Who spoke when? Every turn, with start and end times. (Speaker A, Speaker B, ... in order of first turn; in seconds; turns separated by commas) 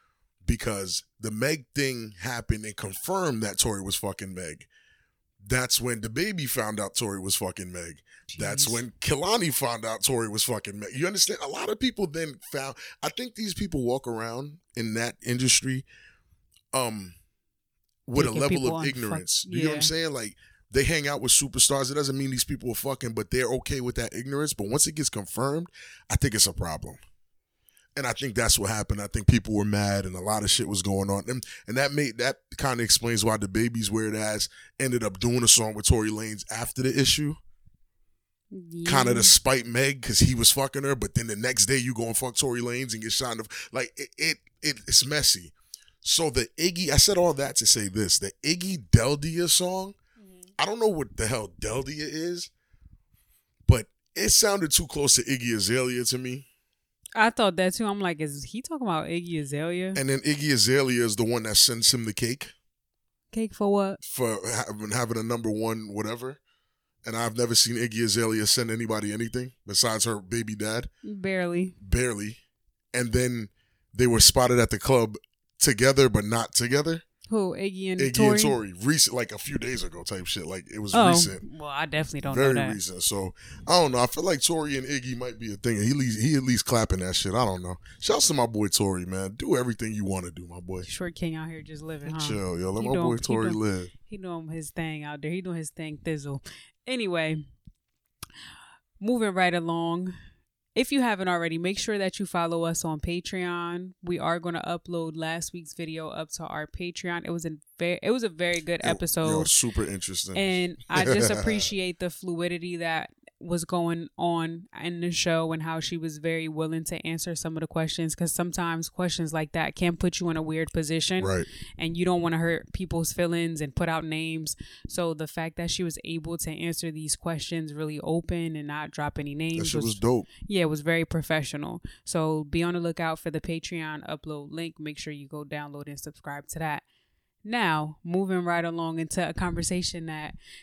Speaker A: 0.4-4.7, Speaker A: 5.4-15.8, Speaker B: 8.3-8.8, Speaker A: 16.7-17.1, Speaker A: 18.1-27.0, Speaker B: 18.1-19.9, Speaker A: 27.9-37.4, Speaker B: 38.5-39.3, Speaker A: 38.9-49.9, Speaker A: 50.6-52.5, Speaker A: 53.7-56.5, Speaker B: 57.1-60.0, Speaker A: 59.9-62.5, Speaker B: 63.3-64.0, Speaker A: 64.0-66.4, Speaker A: 67.0-70.9, Speaker B: 71.0-71.7, Speaker A: 71.8-72.4, Speaker A: 72.9-77.0, Speaker B: 77.3-78.6, Speaker A: 78.0-81.4, Speaker B: 80.9-82.8, Speaker A: 82.2-90.8, Speaker B: 90.8-97.4, Speaker A: 92.0-93.9, Speaker B: 99.0-100.1, Speaker B: 100.7-109.5, Speaker A: 108.8-111.7, Speaker B: 110.3-136.8, Speaker A: 121.2-121.5, Speaker A: 129.5-130.3, Speaker B: 137.4-140.3